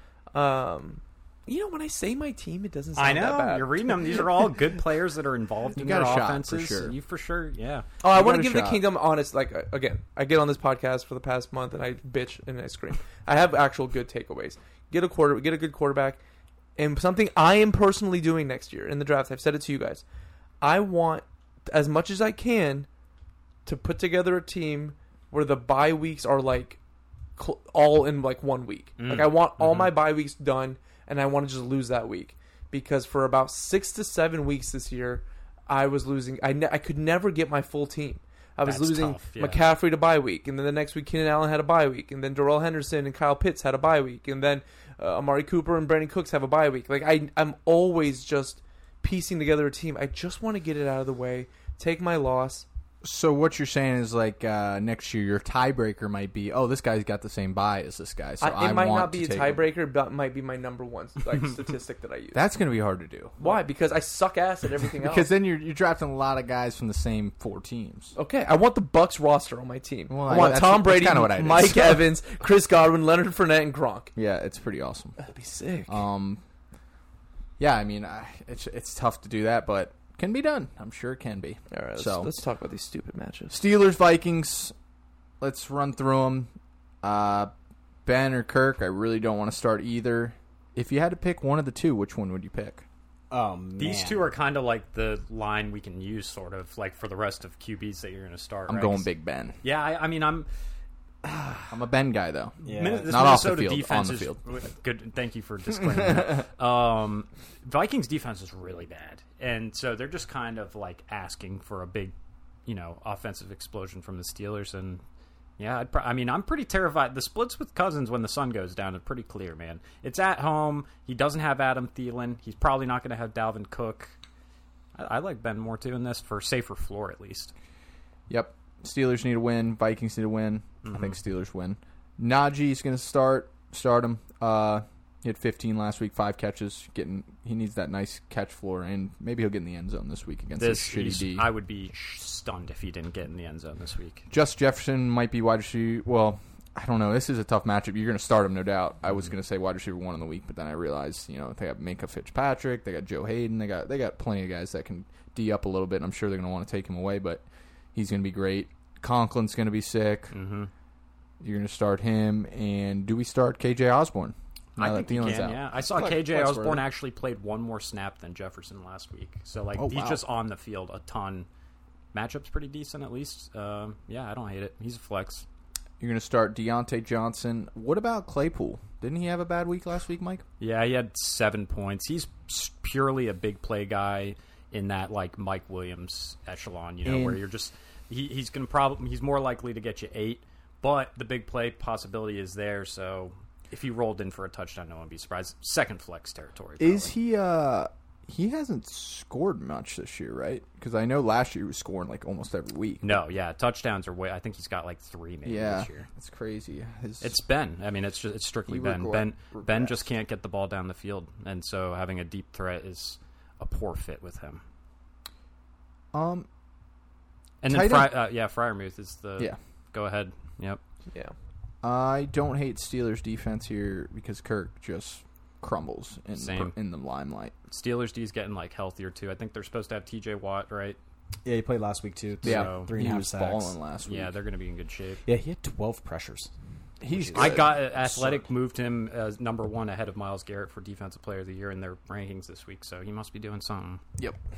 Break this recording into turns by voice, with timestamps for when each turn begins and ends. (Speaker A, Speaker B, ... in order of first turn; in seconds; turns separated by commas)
Speaker A: 0.3-4.2, Speaker B: 3.0-7.9, Speaker C: 5.8-7.0, Speaker A: 8.0-16.2, Speaker C: 8.1-8.8, Speaker A: 16.8-20.1, Speaker A: 20.6-22.9, Speaker A: 23.7-26.8, Speaker A: 27.4-52.6, Speaker B: 29.0-29.9, Speaker B: 38.6-39.6, Speaker C: 53.0-59.7, Speaker A: 58.4-62.4, Speaker C: 62.3-63.6, Speaker A: 63.4-65.3, Speaker C: 65.0-68.1, Speaker A: 68.2-74.1, Speaker C: 70.1-72.1, Speaker C: 74.1-75.2, Speaker A: 75.2-76.0, Speaker C: 75.9-76.4, Speaker C: 77.6-82.3, Speaker A: 81.7-83.6, Speaker C: 83.5-84.7, Speaker C: 85.4-86.5, Speaker C: 87.0-87.5, Speaker C: 88.0-92.8, Speaker D: 93.3-94.3, Speaker B: 93.8-99.1, Speaker C: 98.7-99.6, Speaker B: 99.6-100.5, Speaker B: 101.2-101.7, Speaker C: 101.7-104.4, Speaker D: 102.6-103.2, Speaker B: 102.6-112.1, Speaker C: 105.8-106.3, Speaker B: 112.7-115.0, Speaker B: 115.6-124.1, Speaker B: 125.0-127.5, Speaker C: 128.3-141.5, Speaker B: 130.8-131.1, Speaker B: 140.6-144.2, Speaker C: 144.3-157.4, Speaker C: 157.9-160.3, Speaker B: 160.3-160.7, Speaker C: 161.4-166.9, Speaker B: 164.8-171.5, Speaker C: 169.8-170.2, Speaker B: 172.1-175.4, Speaker C: 176.0-180.4, Speaker B: 180.6-197.1, Speaker C: 187.1-187.4, Speaker C: 196.8-203.2, Speaker B: 203.0-206.1, Speaker C: 205.4-207.4, Speaker B: 207.2-214.6, Speaker C: 208.7-210.0, Speaker C: 216.1-216.5, Speaker B: 217.6-220.8, Speaker C: 217.7-218.2, Speaker C: 221.8-227.5, Speaker B: 226.4-226.7, Speaker B: 227.7-231.0, Speaker D: 231.4-233.7, Speaker B: 232.4-232.9, Speaker C: 232.4-234.3, Speaker B: 234.1-235.2, Speaker D: 235.2-236.5, Speaker C: 237.0-238.0, Speaker D: 237.1-238.4, Speaker B: 237.3-244.0